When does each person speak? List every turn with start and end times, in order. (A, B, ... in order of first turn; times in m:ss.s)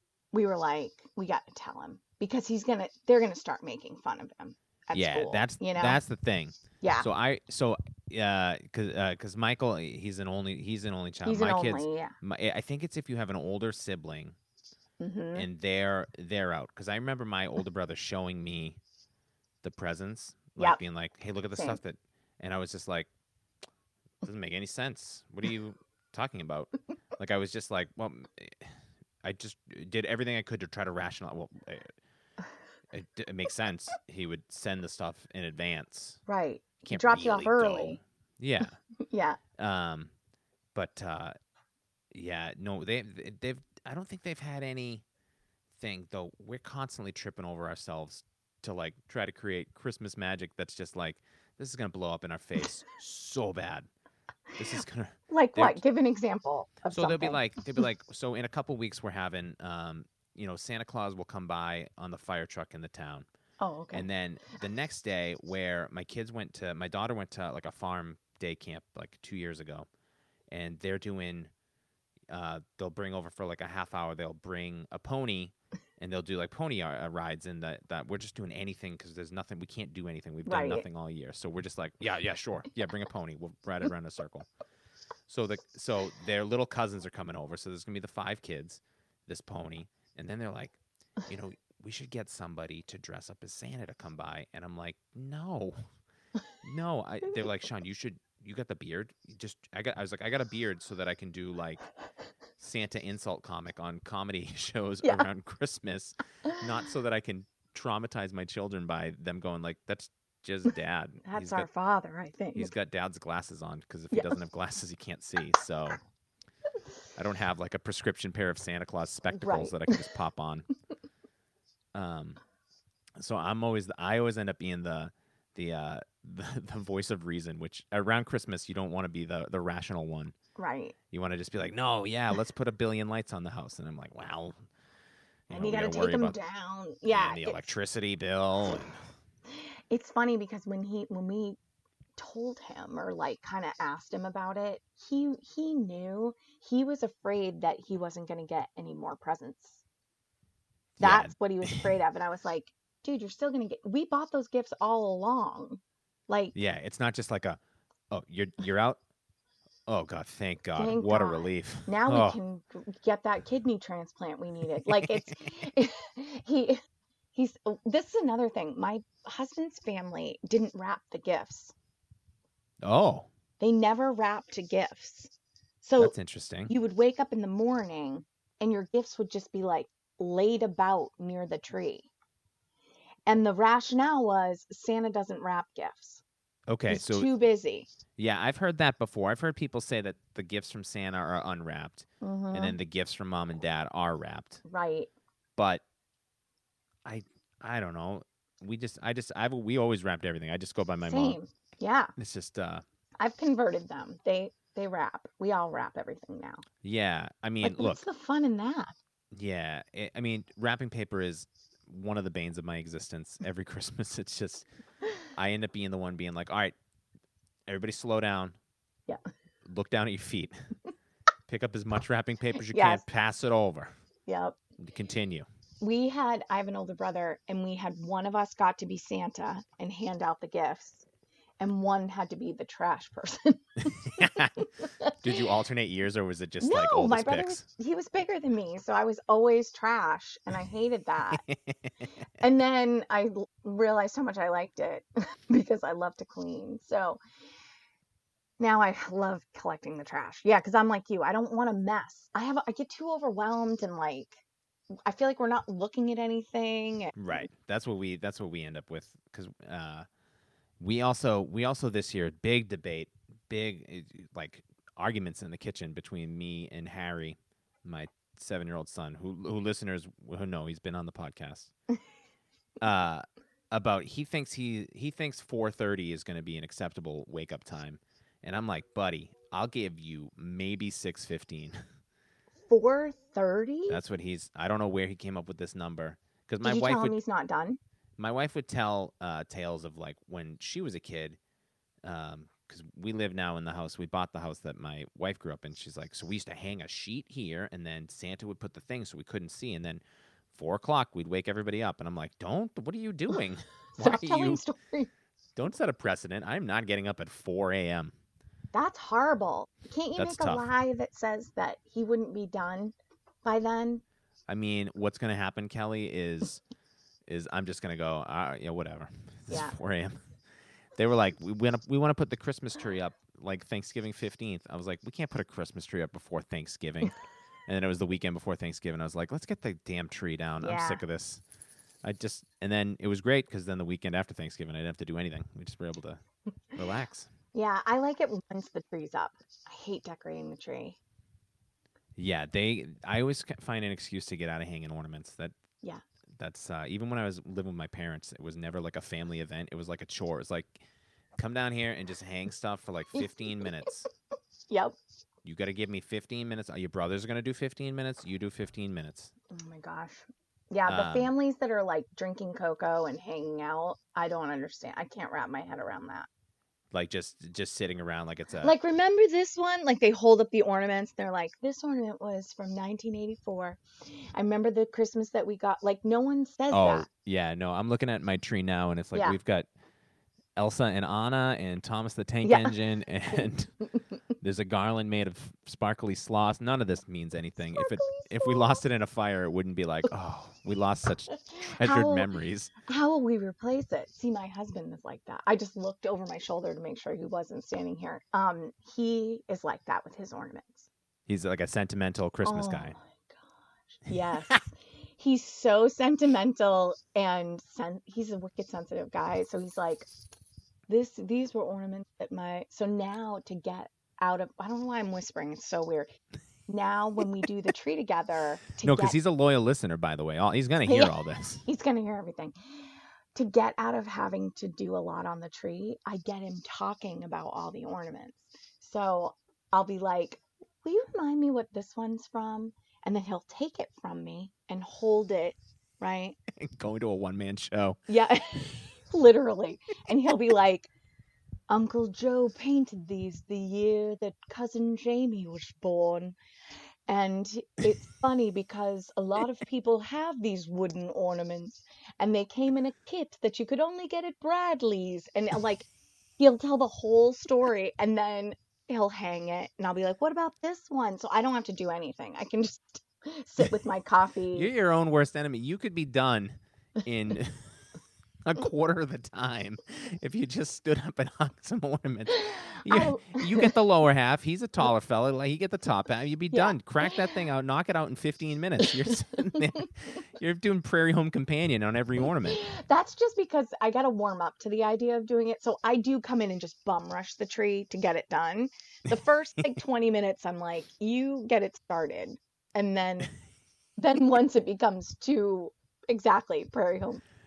0:00.3-0:06.0 A
0:04.9-0:14.4 B
0:06.8-0:07.1 A
0:11.2-0:12.1 A
0:15.0-0:15.5 A
0:15.3-0:18.8 B
0:19.6-0:23.1 B
0:21.5-0:21.8 A
0:24.2-0:31.9 B
0:32.9-0:36.2 B
0:36.2-0:38.0 A
0:36.8-0:38.8 B
0:39.0-0:39.4 A
0:39.6-0:40.1 B
0:40.7-0:41.3 B
0:42.1-0:45.0 B
0:45.8-0:53.9 B
0:54.6-0:55.8 B
0:55.3-0:57.4 A
0:56.9-1:03.2 B
1:03.6-1:04.1 A
1:03.9-1:09.9 B
1:10.5-1:11.5 B
1:12.3-1:24.5 B
1:20.4-1:20.8 A
1:25.3-1:35.8 B
1:36.6-1:41.8 B
1:42.6-1:51.7 B
1:51.2-1:52.7 A
1:52.6-1:56.0 B
1:54.1-1:54.4 A
1:57.2-2:00.7 B
1:59.3-2:00.0 A
2:01.9-2:02.4 B
2:03.2-2:10.3 B
2:10.6-2:10.9 A
2:11.1-2:14.6 B
2:15.5-2:16.4 B
2:15.5-2:17.7 A
2:17.1-2:19.0 B
2:19.6-2:21.6 A
2:22.2-2:29.8 A
2:31.0-2:31.9 B
2:31.0-2:36.5 A
2:36.5-2:37.6 B
2:38.1-2:39.0 B
2:39.9-2:42.4 B
2:40.8-2:46.8 A
2:44.8-2:45.3 B
2:47.3-2:51.7 A
2:52.8-2:53.3 B
2:53.6-2:56.1 A
2:56.0-2:56.7 B
2:56.7-3:02.1 A
3:03.2-3:06.2 A
3:06.7-3:07.3 B
3:06.9-3:07.9 A
3:08.2-3:14.6 B
3:12.2-3:12.8 A
3:14.6-3:15.1 A
3:15.6-3:15.8 B
3:17.0-3:21.4 B
3:21.0-3:22.1 A
3:22.2-3:22.8 B
3:23.2-3:26.6 A
3:26.8-3:28.0 B
3:27.6-3:28.9 A
3:29.3-3:34.7 B
3:35.3-3:36.7 B
3:37.7-3:38.6 B
3:39.6-3:40.7 B
3:41.5-3:43.9 B
3:42.7-3:43.0 A
3:44.3-3:44.6 A
3:44.8-3:45.5 B
3:45.8-3:51.0 A
3:51.6-3:55.2 A
3:53.8-3:54.5 B
3:55.2-3:57.6 B
3:56.6-4:01.4 A
4:01.3-4:01.8 B
4:02.4-4:07.2 A
4:08.6-4:14.4 A
4:15.0-4:17.4 A
4:17.1-4:20.1 B
4:20.8-4:31.7 B
4:32.8-4:41.8 B
4:42.7-4:44.0 A
4:43.9-4:47.2 B
4:46.6-4:47.8 A
4:48.2-4:51.4 B
4:52.0-5:04.6 B
5:03.9-5:05.1 A
5:05.6-5:08.1 B
5:08.7-5:14.0 A
5:10.2-5:10.6 B
5:14.5-5:16.6 B
5:17.3-5:20.2 B
5:19.5-5:19.7 A
5:21.0-5:31.4 B
5:30.6-5:31.0 A
5:32.0-5:36.2 B
5:36.8-5:37.3 B
5:37.5-5:41.0 A
5:42.2-5:45.5 B
5:46.4-5:50.8 B
5:51.4-5:54.1 B
5:54.7-5:55.0 A
5:55.4-5:59.3 B
5:59.5-6:06.3 A
6:00.8-6:01.3 B
6:06.9-6:08.7 B
6:08.6-6:13.8 A
6:14.3-6:17.1 A
6:16.7-6:19.7 B
6:20.6-6:23.7 B
6:22.4-6:22.7 A
6:24.4-6:32.7 B
6:27.6-6:28.8 A
6:31.5-6:32.3 A
6:32.8-6:40.9 A
6:41.3-6:43.0 B
6:42.4-6:43.4 A
6:43.9-6:50.1 A
6:50.9-6:56.1 A
6:56.7-6:59.2 A
6:58.8-7:01.6 B
7:00.8-7:02.5 A
7:03.3-7:16.4 A
7:16.6-7:18.0 B
7:18.1-7:20.9 A
7:21.7-7:26.4 A
7:27.1-7:35.9 A
7:36.4-7:44.7 A
7:44.5-7:47.7 B
7:48.4-8:02.6 B
7:52.3-7:53.7 A
7:56.5-7:57.2 A
7:59.5-7:59.8 A
8:02.5-8:13.3 A
8:14.0-8:17.2 A